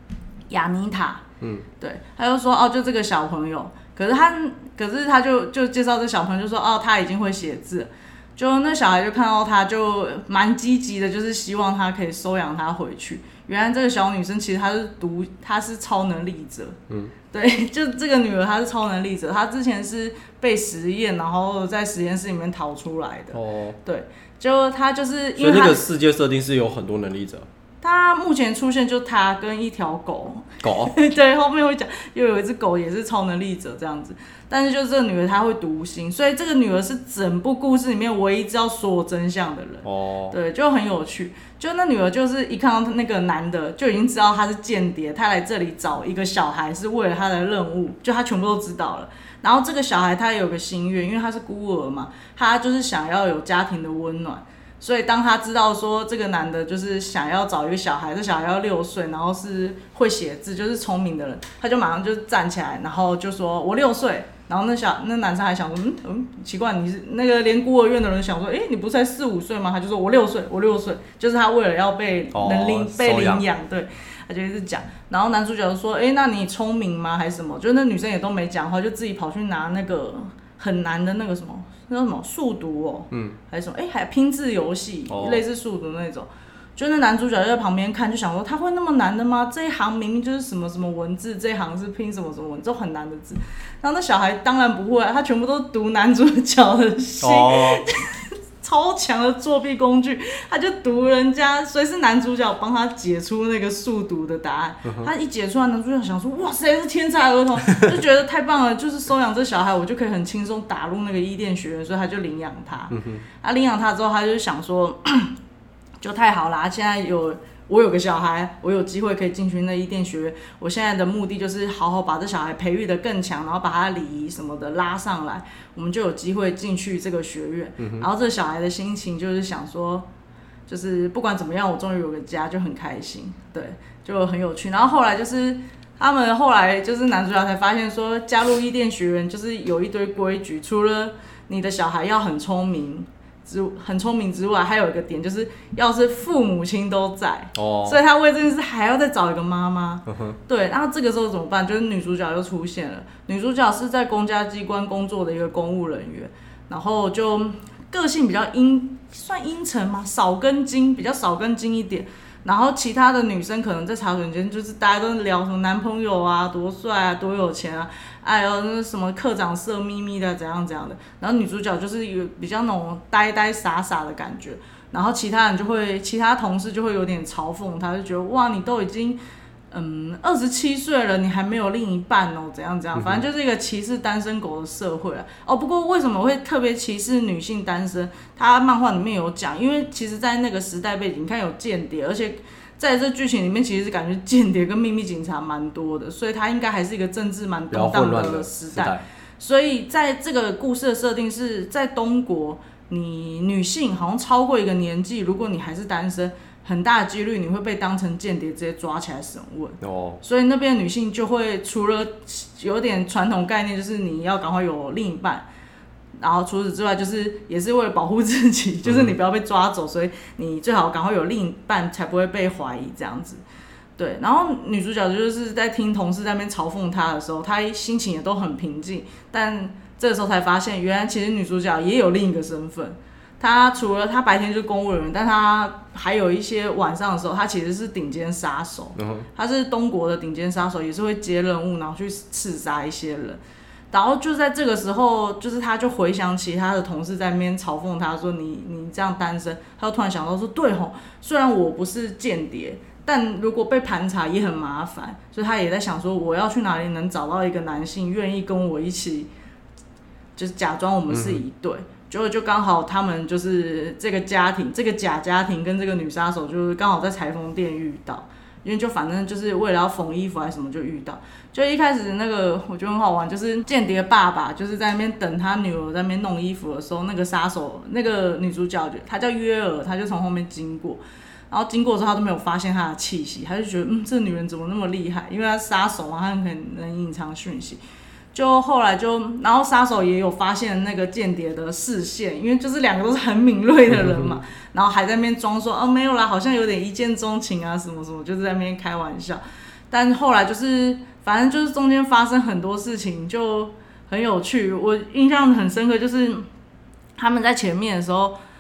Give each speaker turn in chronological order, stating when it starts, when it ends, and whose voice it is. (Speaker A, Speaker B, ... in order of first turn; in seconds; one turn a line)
Speaker A: 0.5-1.2
Speaker A: 1.8-16.8
Speaker A: 17.3-25.9
Speaker B: 23.3-23.8
Speaker B: 25.4-27.5
Speaker A: 27.8-115.3
Speaker B: 30.6-30.9
Speaker B: 39.8-40.4
Speaker B: 72.3-73.5
Speaker B: 83.1-83.4
Speaker B: 85.1-85.4
Speaker B: 97.2-97.8
Speaker B: 104.8-105.1
Speaker B: 112.9-113.2
Speaker A: 116.0-130.1
Speaker B: 127.8-128.1
Speaker A: 130.7-179.2
Speaker B: 147.6-148.0
Speaker B: 150.1-150.4
Speaker A: 179.7-215.5
Speaker B: 183.0-183.2
Speaker B: 197.7-199.0
Speaker B: 209.8-210.2
Speaker A: 216.2-223.4
Speaker B: 218.9-219.2
Speaker A: 224.0-243.4
Speaker B: 239.0-239.3
Speaker A: 243.9-259.3
Speaker A: 260.4-287.8
Speaker B: 261.1-261.4
Speaker A: 288.3-306.5
Speaker B: 293.9-294.3
Speaker A: 307.2-308.4